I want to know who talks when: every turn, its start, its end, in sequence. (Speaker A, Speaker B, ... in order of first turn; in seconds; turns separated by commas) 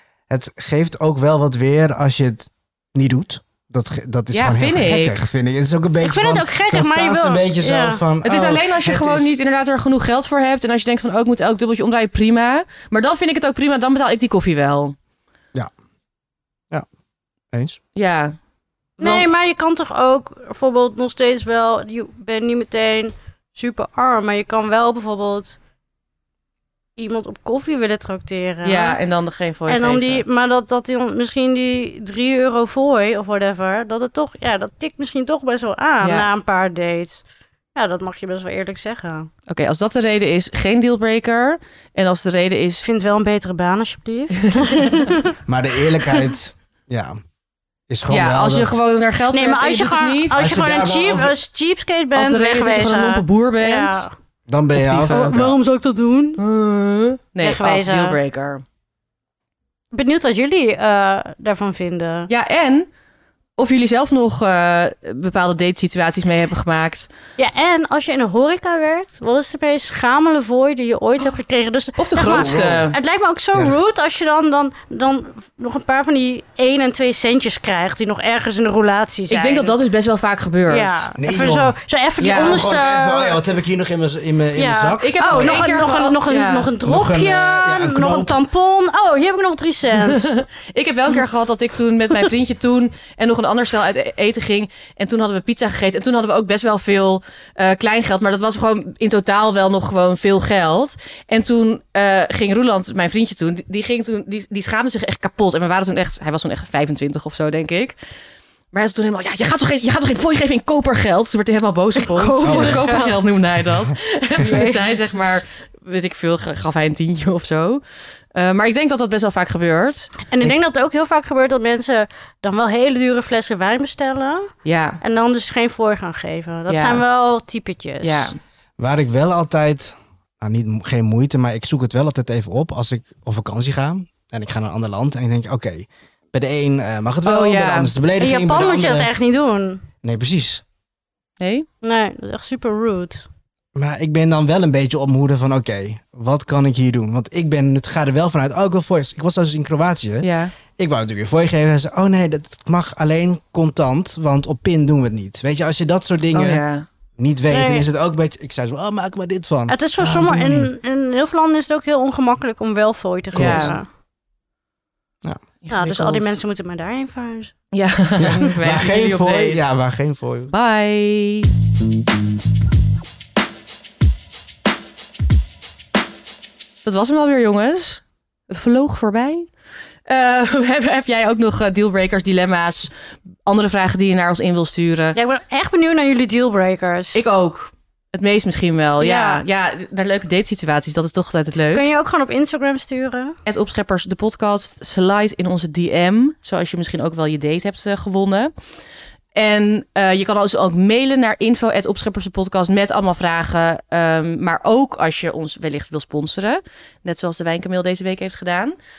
Speaker A: 0.3-9.3, Speaker B: 4.3-5.2, Speaker C: 6.0-8.0, Speaker B: 8.2-14.9, Speaker A: 17.5-17.8, Speaker B: 17.9-18.3, Speaker B: 19.0-19.3, Speaker C: 19.0-25.6, Speaker C: 27.0-29.0, Speaker B: 28.6-30.2, Speaker C: 29.7-39.3, Speaker B: 36.0-36.3, Speaker B: 39.5-42.9, Speaker C: 42.8-45.4, Speaker B: 44.4-45.1, Speaker A: 45.5-47.2, Speaker A: 47.9-48.8, Speaker B: 48.1-50.5, Speaker C: 49.3-54.1, Speaker A: 50.3-51.4, Speaker B: 52.1-54.1, Speaker A: 54.5-55.6, Speaker B: 54.8-55.3, Speaker C: 55.1-56.4, Speaker B: 56.4-58.6, Speaker C: 57.4-58.2, Speaker C: 59.9-62.3, Speaker B: 62.3-62.9, Speaker B: 63.6-67.1, Speaker C: 67.4-79.7, Speaker B: 72.0-73.0, Speaker A: 72.2-72.9, Speaker A: 73.5-73.8, Speaker B: 79.3-81.1, Speaker C: 80.7-83.4, Speaker A: 81.2-81.8, Speaker B: 82.2-82.7, Speaker A: 82.3-85.7, Speaker C: 84.5-90.4, Speaker B: 85.0-86.7, Speaker A: 86.8-88.4, Speaker B: 90.0-108.0, Speaker B: 108.7-117.8, Speaker C: 112.0-113.2, Speaker A: 112.4-114.0, Speaker C: 114.4-115.0, Speaker B: 118.3-120.2, Speaker C: 120.3-124.5, Speaker B: 124.7-125.0, Speaker C: 125.0-128.3, Speaker B: 126.7-127.0, Speaker B: 128.0-128.4, Speaker A: 128.8-139.1, Speaker B: 137.3-137.9, Speaker C: 138.2-139.8, Speaker A: 140.0-140.6, Speaker B: 141.4-141.7, Speaker C: 141.8-143.3, Speaker A: 143.8-156.6, Speaker B: 150.2-150.5, Speaker B: 156.3-156.8, Speaker A: 157.2-160.7, Speaker C: 157.5-157.9, Speaker C: 159.7-163.9, Speaker B: 163.3-163.8, Speaker A: 163.3-163.8, Speaker B: 165.6-166.4, Speaker C: 165.7-167.5, Speaker B: 167.7-169.7, Speaker A: 168.2-170.5, Speaker B: 170.5-171.5, Speaker B: 176.8-179.5, Speaker B: 180.1-182.9, Speaker B: 183.5-185.2, Speaker C: 185.2-187.2, Speaker B: 187.1-191.9, Speaker C: 189.0-189.4, Speaker C: 191.7-193.4, Speaker B: 193.5-198.5, Speaker B: 199.3-208.8